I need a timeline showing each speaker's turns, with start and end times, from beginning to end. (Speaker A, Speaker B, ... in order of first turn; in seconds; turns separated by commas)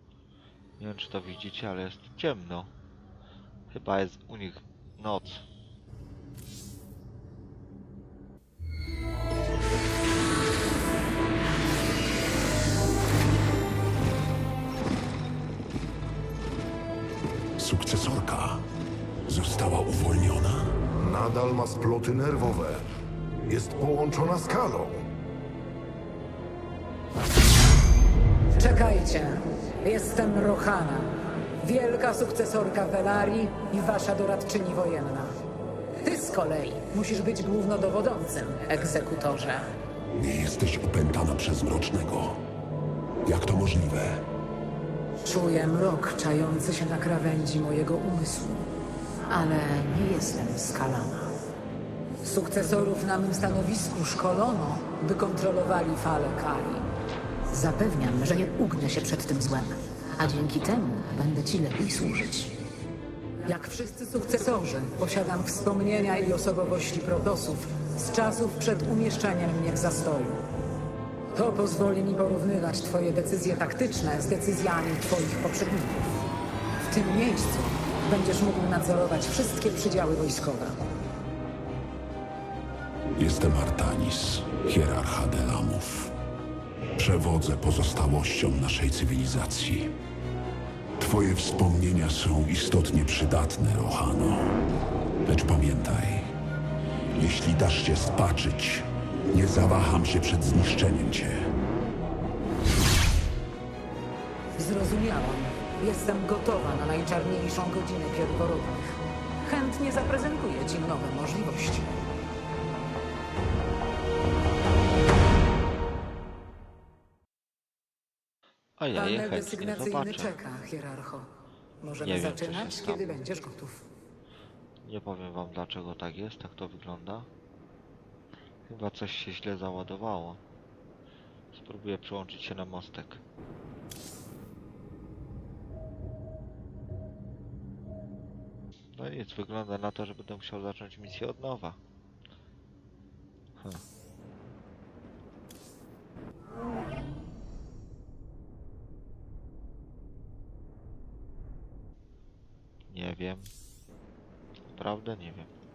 Speaker A: 0.8-2.7, Speaker A: 3.7-5.5, Speaker B: 17.6-18.6, Speaker B: 19.3-20.8, Speaker C: 21.0-22.8, Speaker C: 23.4-25.0, Speaker D: 28.5-35.3, Speaker D: 36.0-39.7, Speaker B: 40.1-42.4, Speaker B: 43.2-44.2, Speaker D: 45.2-48.7, Speaker D: 49.3-51.3, Speaker D: 52.2-56.9, Speaker D: 57.5-62.5, Speaker D: 63.5-70.4, Speaker D: 71.3-76.2, Speaker D: 76.9-80.8, Speaker B: 83.2-86.1, Speaker B: 87.0-89.9, Speaker B: 91.0-94.6, Speaker B: 95.2-96.3, Speaker B: 97.1-101.5, Speaker D: 104.5-108.8, Speaker D: 109.4-111.9, Speaker A: 118.8-120.4, Speaker D: 118.9-121.3, Speaker D: 121.8-123.8, Speaker A: 122.0-123.1, Speaker A: 124.8-127.3, Speaker A: 128.7-130.4, Speaker A: 131.5-133.2, Speaker A: 138.9-141.8, Speaker A: 152.9-153.5, Speaker A: 154.7-155.5